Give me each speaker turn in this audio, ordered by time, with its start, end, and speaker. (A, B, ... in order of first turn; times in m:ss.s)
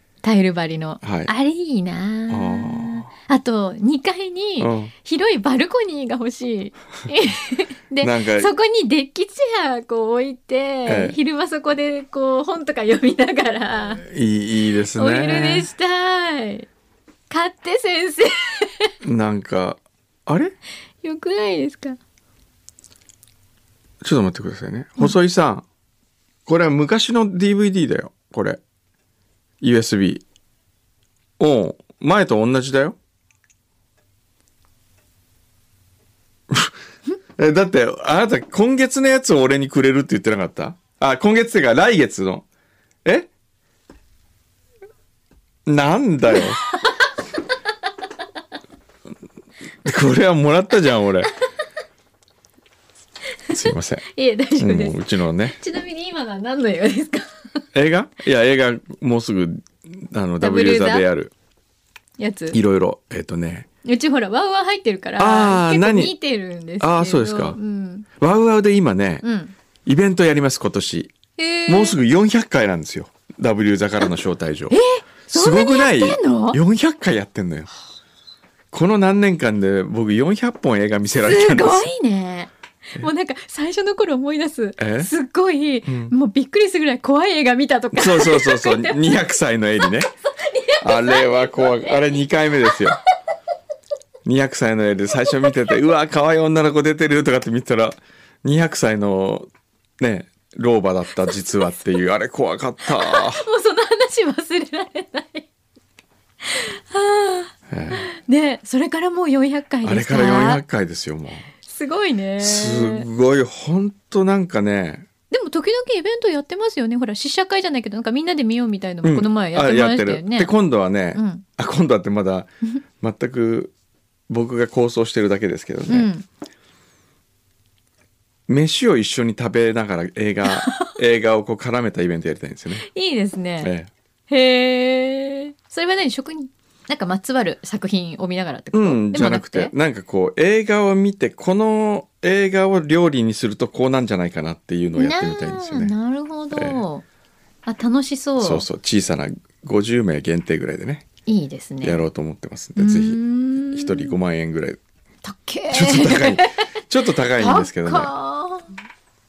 0:00.2-0:14.0 A
0:01.0-0:01.3 B
0:02.3-0:03.1 B
0:04.6-0:04.9 B
0:08.0-0:08.5 B
0:10.9-0:11.2 B
0:14.0-0:15.7 B
0:15.0-0:16.7 A
0:17.3-0:18.9 A
0:19.0-0:20.6 B
0:21.0-0:22.0 A
0:24.0-0:25.6 B
0:26.5-0:28.6 B
0:29.6-0:30.2 B
0:31.4-0:33.0 B
0:37.4-0:42.4 B
0:45.7-0:46.6 B
0:46.3-0:47.0 A
0:49.8-0:51.3 B
0:53.5-0:54.1 B
0:54.1-0:57.6 A
0:54.6-0:55.6 B
0:57.7-1:01.3 B
1:00.4-1:01.1 A
1:02.2-1:02.6 A
1:02.5-1:03.7 B
1:03.8-1:08.1 A
1:05.2-1:06.2 B
1:06.8-1:07.6 B
1:08.2-1:09.2 B
1:09.2-1:09.5 A
1:09.8-1:11.1 B
1:11.4-1:12.0 A
1:11.7-1:14.8 B
1:14.7-1:16.6 A
1:15.3-1:17.7 B
1:18.7-1:21.9 B
1:21.2-1:29.3 A
1:24.8-1:25.1 B
1:25.9-1:26.1 B
1:27.9-1:30.1 B
1:30.4-1:32.8 A
1:30.8-1:33.0 B
1:34.2-1:39.5 B
1:40.0-1:43.5 B
1:42.9-1:45.5 A
1:46.4-1:50.6 A
1:47.7-1:48.1 B
1:49.8-1:51.5 B
1:51.6-1:53.1 A
1:52.4-1:55.1 B
1:55.3-2:00.5 A
1:59.0-2:03.7 B
2:01.2-2:01.4 A
2:04.3-2:06.1 B
2:05.9-2:06.3 A
2:08.5-2:12.9 B
2:10.5-2:10.9 A
2:12.8-2:13.7 A
2:13.6-2:13.9 B
2:14.3-2:19.7 A
2:18.7-2:25.9 B
2:25.0-2:27.0 A
2:26.5-2:26.8 B
2:27.7-2:28.7 A
2:28.4-2:31.1 B
2:31.3-2:32.0 A
2:31.8-2:34.8 B
2:32.8-2:34.2 A
2:35.2-2:36.7 A
2:35.7-2:38.1 B
2:37.4-2:38.7 A